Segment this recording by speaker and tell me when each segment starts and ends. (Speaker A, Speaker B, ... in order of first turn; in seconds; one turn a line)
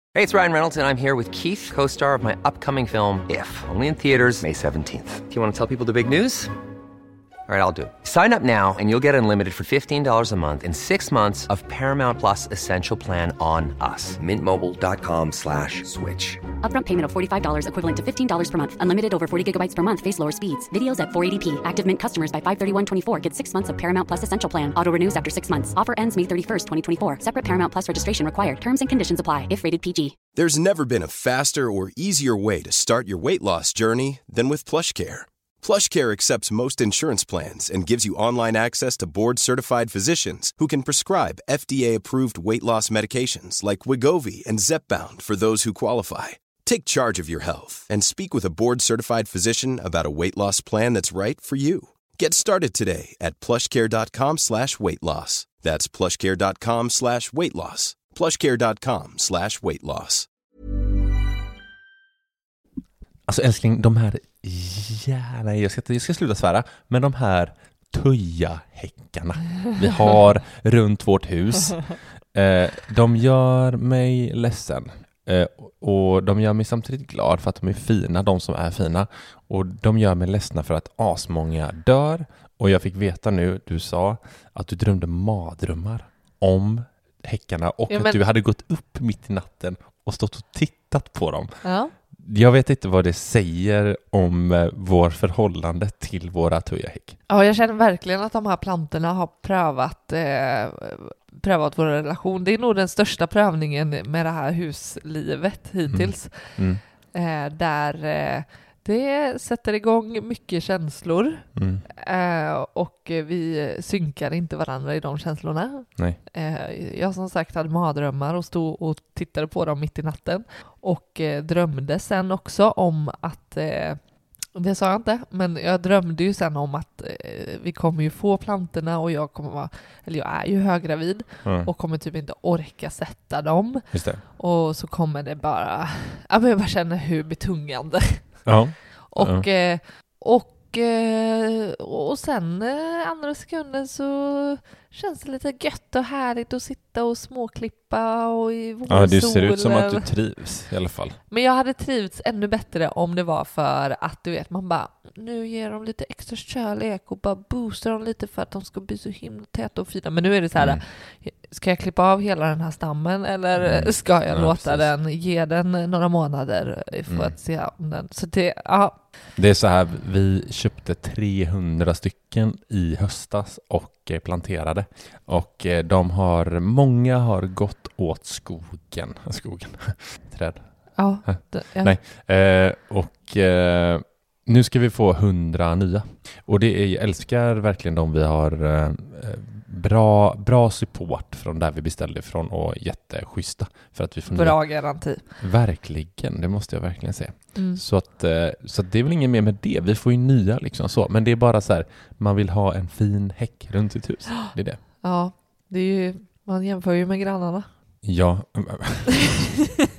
Speaker A: 0.1-6.5
Speaker A: 7.5-16.4
Speaker B: 16.6-30.1
Speaker C: 30.3-60.3
Speaker D: 63.3-91.5
Speaker E: 87.9-88.2
Speaker E: 91.6-91.9
Speaker D: 92.2-97.2
Speaker E: 97.3-124.0
Speaker D: 105.9-106.8
Speaker D: 111.5-111.8
Speaker E: 124.5-138.6
Speaker D: 131.4-131.7
Speaker D: 133.9-134.2
Speaker D: 138.4-139.5
Speaker E: 139.1-150.1
Speaker D: 148.9-151.2
Speaker E: 151.3-169.0
Speaker D: 160.6-160.8
Speaker D: 163.6-164.9
Speaker D: 167.1-167.3
Speaker D: 169.3-204.8
Speaker E: 180.9-181.9
Speaker E: 194.3-195.2
Speaker E: 197.5-197.8
Speaker E: 205.0-207.7
Speaker D: 208.0-209.2